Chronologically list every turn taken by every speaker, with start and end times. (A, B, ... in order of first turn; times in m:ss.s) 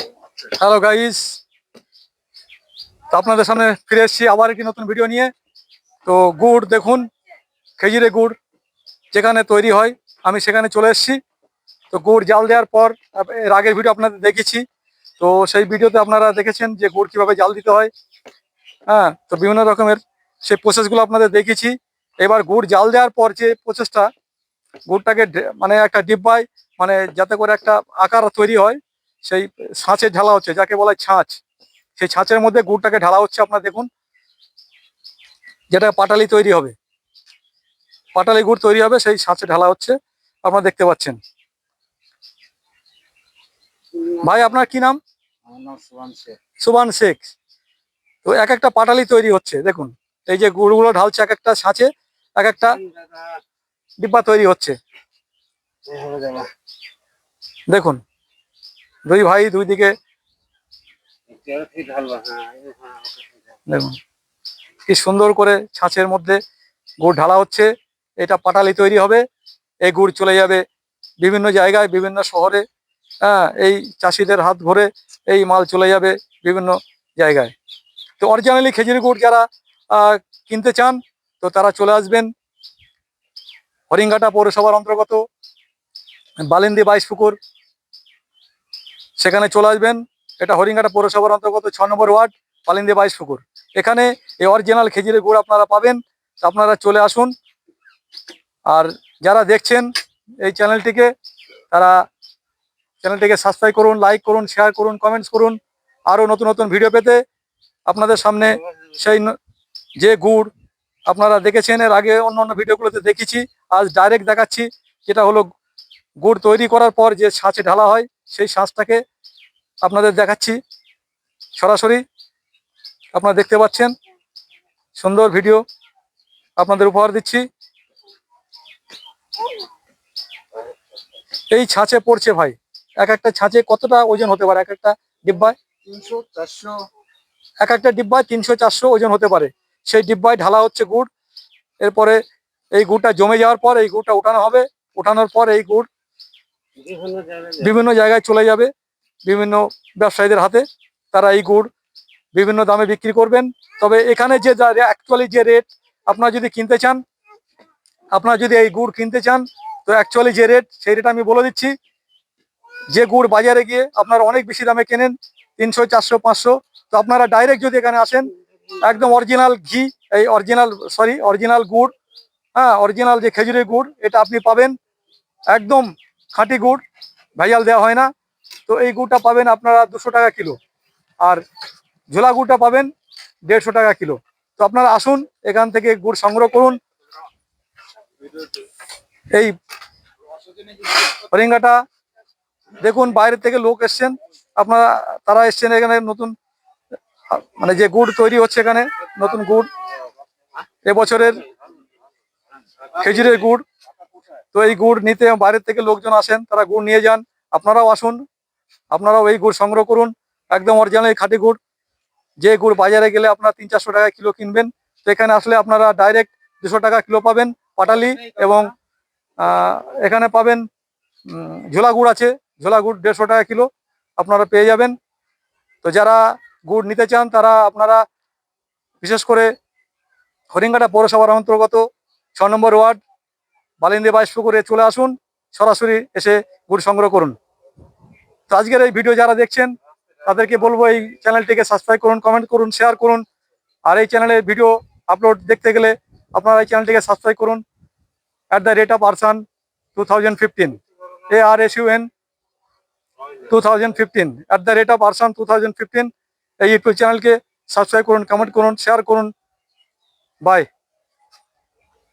0:00.6-0:01.4 A
0:03.1-0:05.3 A
0:06.0-0:07.1 A
0:07.8-0:08.4 A
0:09.1-0:11.2 A
0:11.9-0:14.6 A
0:15.2-0:17.9 A
0:18.9-0:24.1 A
0:24.9-0:31.4 A
0:32.0-0:33.9 A
0:35.7-0:36.7 A
0:38.2-0:41.2 A
0:44.2-0:45.0 A
0:45.5-0:46.4 B
0:46.6-0:47.3 A
0:48.2-0:52.8 A
0:52.8-0:53.4 B
0:54.0-0:54.8 A
0:55.9-0:56.5 B
0:57.7-0:58.0 A
0:59.1-0:59.9 A
1:01.3-1:03.5 B
1:03.7-1:04.0 A
1:04.9-1:06.4 A
1:07.0-1:09.2 A
1:09.8-1:10.6 A
1:11.2-1:12.6 A
1:13.2-1:17.5 A
1:18.2-1:22.3 A
1:23.9-1:25.2 A
1:26.4-1:27.4 A
1:29.2-1:37.3 A
1:38.7-1:39.9 A
1:40.4-1:41.1 A
1:41.7-1:42.0 A
1:43.0-1:45.6 A
1:46.1-1:47.2 A
1:47.9-1:49.4 A
1:50.0-1:50.5 A
1:51.1-1:55.5 A
1:56.2-1:59.0 A
1:59.8-2:00.6 A
2:01.6-2:02.0 A
2:03.1-2:03.9 A
2:05.0-2:05.6 A
2:06.6-2:07.4 A
2:11.5-2:15.6 A
2:15.9-2:16.9 B
2:17.6-2:21.1 A
2:21.8-2:22.2 A
2:22.7-2:25.9 A
2:26.8-2:27.7 B
2:27.6-2:28.7 A
2:29.2-2:31.7 A
2:32.3-2:37.0 A
2:38.1-2:41.7 A
2:42.9-2:51.9 A
2:52.6-2:54.8 A
2:55.5-2:56.8 A
2:57.4-2:58.1 A
2:58.7-3:00.6 A
3:02.1-3:02.9 A
3:03.5-3:06.8 A
3:11.3-3:11.8 A
3:12.8-3:16.3 A
3:17.3-3:19.7 A
3:20.8-3:21.4 A
3:23.0-3:23.6 A
3:24.5-3:28.2 A
3:28.9-3:31.6 A
3:32.4-3:38.7 A
3:39.4-3:40.7 A
3:41.3-3:43.7 A
3:44.2-3:45.0 A
3:45.8-3:48.0 A
3:49.0-3:49.5 A
3:50.5-3:53.0 A
3:53.8-3:57.4 A
3:58.5-3:59.7 A
4:00.2-4:03.2 A
4:03.9-4:07.6 A
4:08.5-4:09.4 A
4:10.0-4:12.1 A
4:13.5-4:16.1 A
4:16.6-4:19.3 A